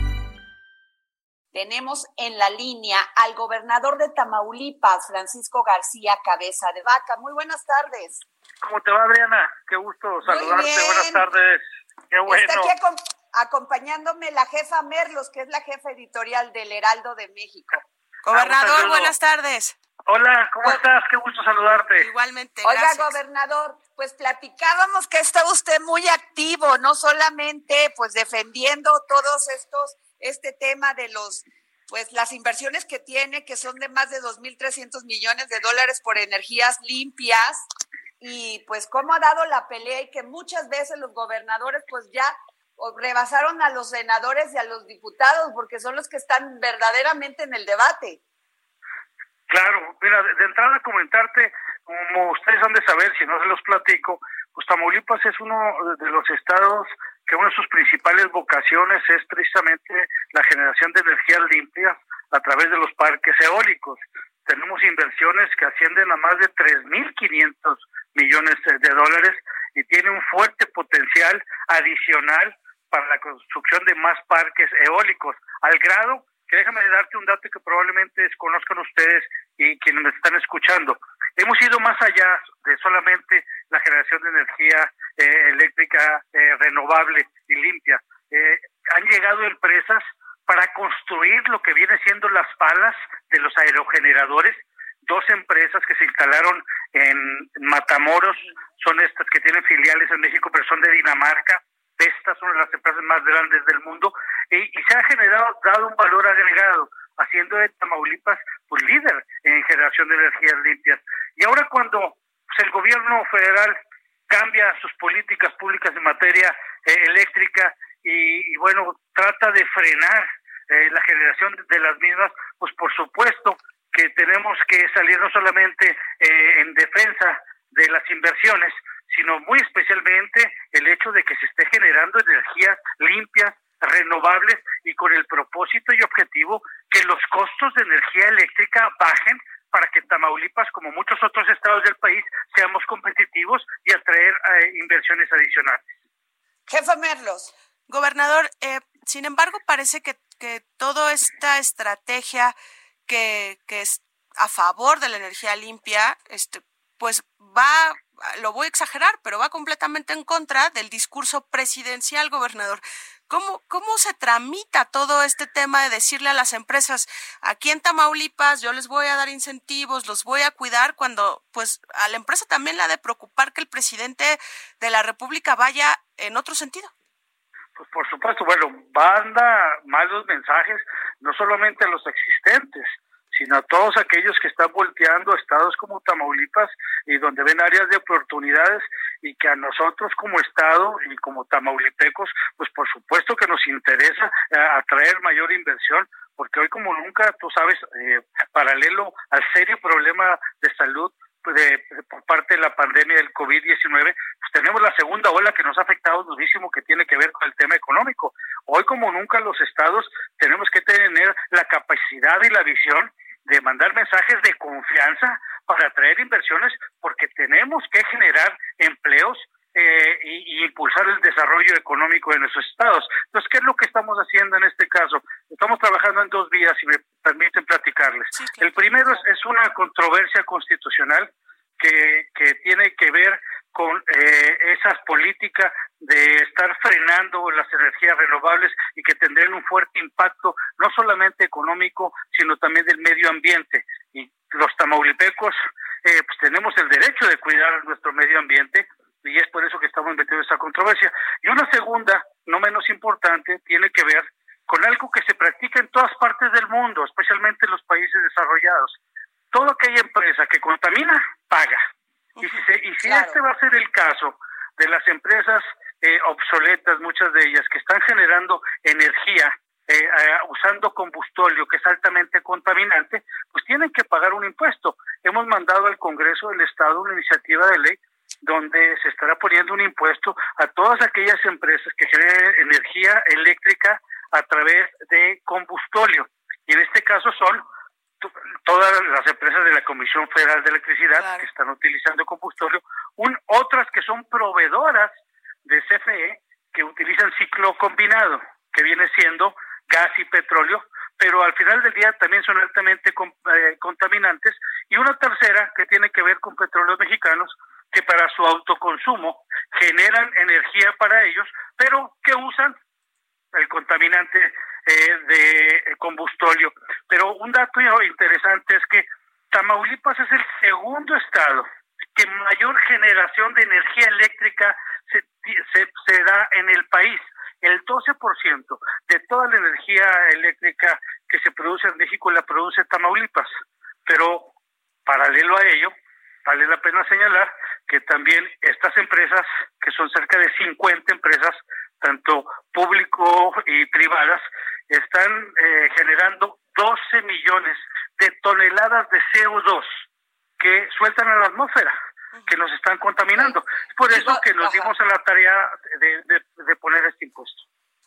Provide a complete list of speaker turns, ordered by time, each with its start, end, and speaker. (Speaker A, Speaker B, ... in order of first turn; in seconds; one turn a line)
Speaker A: 1.5-8.2
Speaker B: 8.6-12.8
Speaker A: 10.2-11.2
Speaker A: 12.3-17.8
Speaker C: 18.2-19.8
Speaker B: 18.3-19.2
Speaker B: 20.1-22.1
Speaker C: 22.0-23.2
Speaker A: 22.6-37.7
Speaker A: 38.2-48.2
Speaker B: 49.5-113.8
Speaker B: 114.3-145.8
Speaker A: 146.7-147.5
Speaker C: 147.9-152.6
Speaker C: 153.1-176.9
Speaker B: 177.8-259.0
Speaker C: 228.3-229.2
Speaker B: 259.5-261.8
Speaker B: 262.4-287.6
Speaker A: 263.0-263.4
Speaker B: 288.2-295.1
Speaker C: 291.1-291.5
Speaker B: 295.6-312.8
Speaker B: 313.5-321.6
Speaker B: 322.2-333.5
Speaker B: 334.1-334.5
Speaker B: 335.1-335.9
Speaker B: 336.4-349.9
Speaker B: 350.6-351.9
Speaker B: 352.5-357.6
Speaker A: 353.4-354.9